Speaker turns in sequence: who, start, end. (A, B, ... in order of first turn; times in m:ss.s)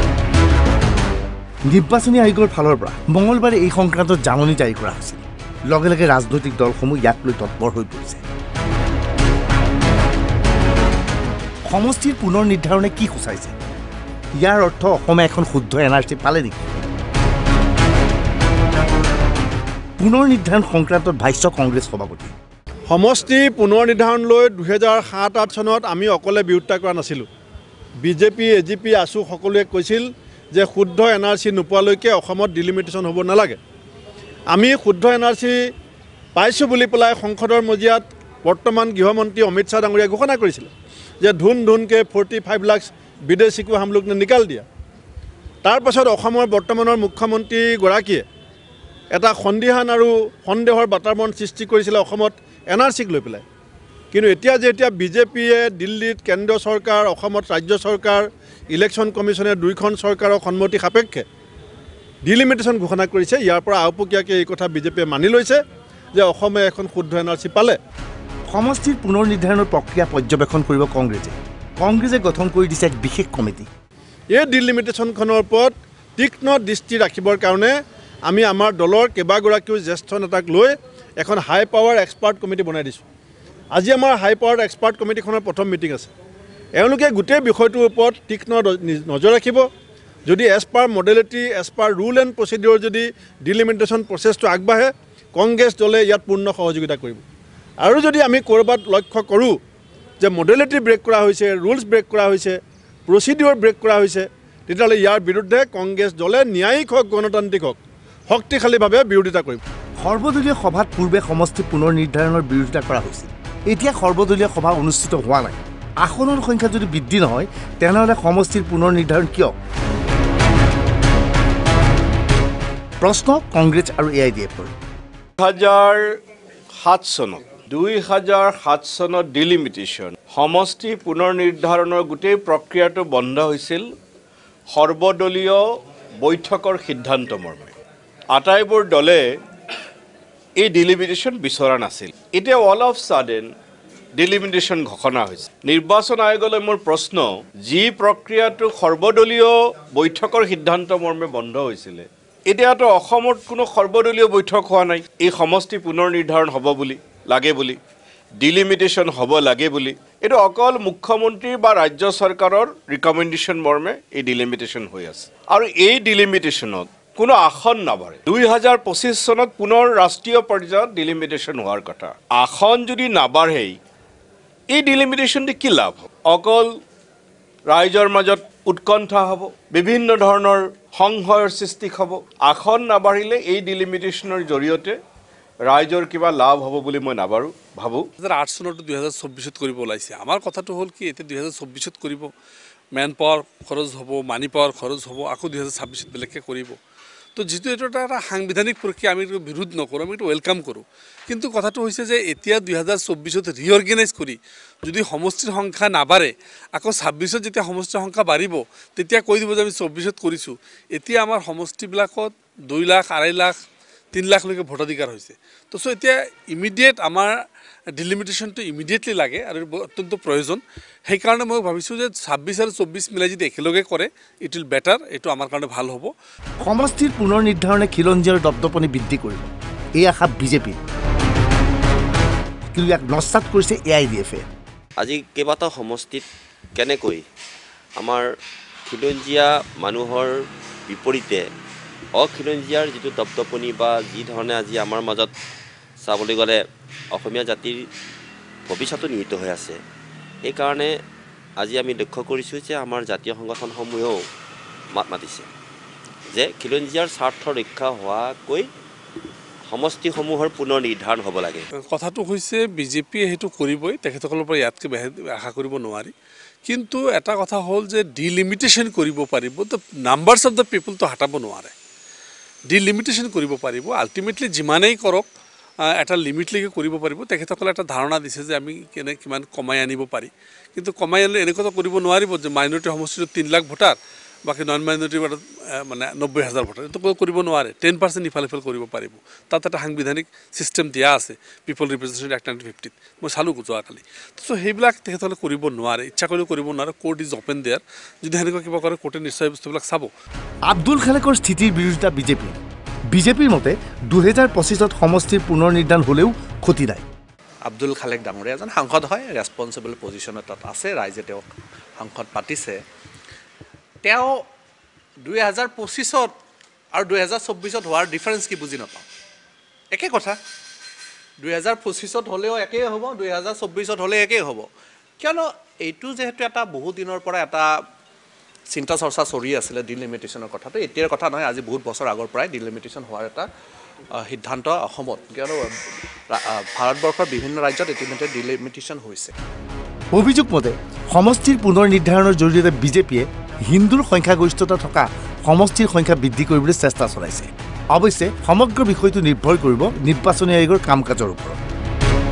0:01.7-0:08.2 A
0:11.7-0:13.5 A
0:14.4-0:16.6 A
0:20.0-0:22.3 A
0:22.9-0:27.3 B
0:28.0-0:33.6 B
0:34.5-0:35.6 B
0:36.4-0:40.7 B
0:41.2-0:44.6 B
0:45.6-0:48.2 B
0:49.1-0:53.4 B
0:54.1-1:01.2 B
1:02.2-1:05.6 B
1:06.2-1:07.8 B
1:08.5-1:13.7 A
1:14.3-1:17.7 B
1:18.3-1:23.0 B
1:23.7-1:26.1 B
1:26.8-1:29.6 B
1:30.3-1:37.2 B
1:37.8-1:39.6 B
1:40.2-1:42.6 B
1:43.1-1:49.6 B
1:50.0-1:59.5 A
2:03.0-2:04.7 A
2:05.4-2:06.0 C
2:06.8-2:13.8 C
2:14.7-2:15.6 C
2:16.2-2:17.8 C
2:18.3-2:19.2 C
2:20.6-2:23.5 C
2:24.2-2:37.8 C
2:38.4-2:53.8 C
2:54.7-2:56.7 C
2:57.7-3:05.0 C
3:05.7-3:08.1 C
3:08.2-3:12.3 D
3:13.0-3:16.8 D
3:17.4-3:33.5 D
3:34.1-3:37.3 D
3:38.0-3:46.1 D
3:46.6-3:50.8 A
3:52.7-3:54.5 A
3:55.0-3:56.2 E
3:56.8-3:57.2 E
3:58.0-3:58.3 E
3:58.9-4:01.5 E
4:02.2-4:05.3 E
4:06.0-4:07.9 E
4:08.7-4:09.8 E
4:10.4-4:11.0 E
4:11.6-4:14.3 E
4:14.9-4:15.5 E
4:16.3-4:18.7 E
4:19.7-4:21.7 E
4:21.9-4:26.1 D
4:26.6-4:31.7 D
4:32.7-4:35.2 D
4:36.0-5:00.1 D
5:00.7-5:02.6 A
5:03.1-5:07.1 A
5:07.6-5:12.8 F
5:14.0-5:14.4 F
5:15.2-5:16.3 F
5:17.0-5:19.1 F
5:19.9-5:20.4 F
5:21.4-5:24.7 F
5:25.2-5:27.7 F
5:28.7-5:33.5 F
5:34.2-5:35.7 F
5:36.3-5:39.3 F
5:40.1-5:51.6 A